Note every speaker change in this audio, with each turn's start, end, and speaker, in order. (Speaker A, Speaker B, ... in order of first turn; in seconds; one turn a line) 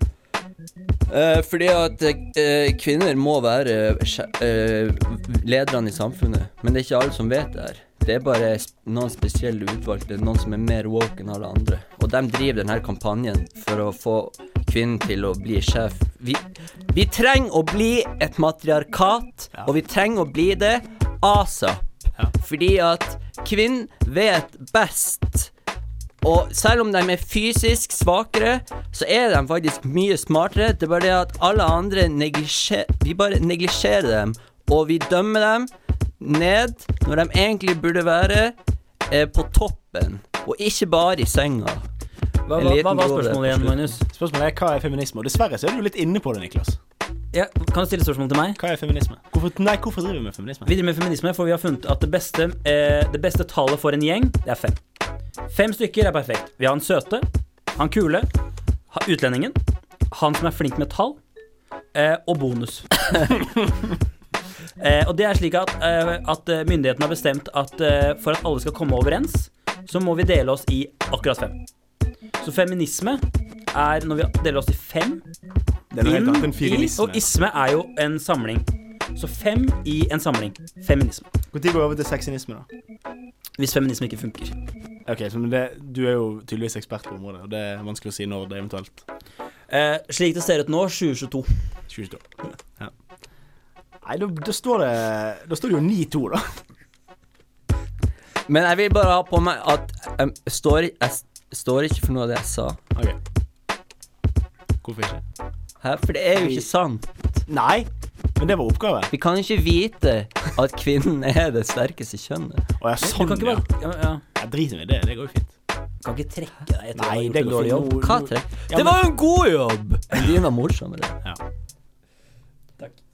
Speaker A: 1.1-25.5
Speaker A: 26.2-38.6
Speaker A: 39.1-41.9
Speaker B: 42.5-44.0
Speaker A: 42.6-44.0
Speaker C: 44.1-46.8
Speaker B: 47.3-48.6
Speaker C: 48.6-50.7
Speaker B: 50.6-54.8
Speaker B: 55.5-58.3
Speaker B: 58.9-59.6
Speaker B: 60.1-61.2
Speaker B: 61.9-63.0
Speaker B: 64.8-71.6
Speaker B: 72.4-75.2
Speaker C: 75.9-77.2
Speaker B: 76.0-81.3
Speaker C: 81.5-82.7
Speaker B: 83.6-84.6
Speaker C: 85.1-89.0
Speaker B: 89.7-91.5
Speaker C: 91.9-92.2
Speaker C: 94.0-96.5
Speaker A: 98.5-102.8
Speaker C: 104.8-105.2
Speaker A: 105.8-107.2
Speaker C: 106.4-106.7
Speaker C: 107.5-109.1
Speaker A: 109.1-112.6
Speaker C: 112.8-113.6
Speaker B: 113.0-114.2
Speaker C: 114.4-115.5
Speaker B: 116.0-117.9
Speaker C: 117.0-119.0
Speaker A: 118.0-121.2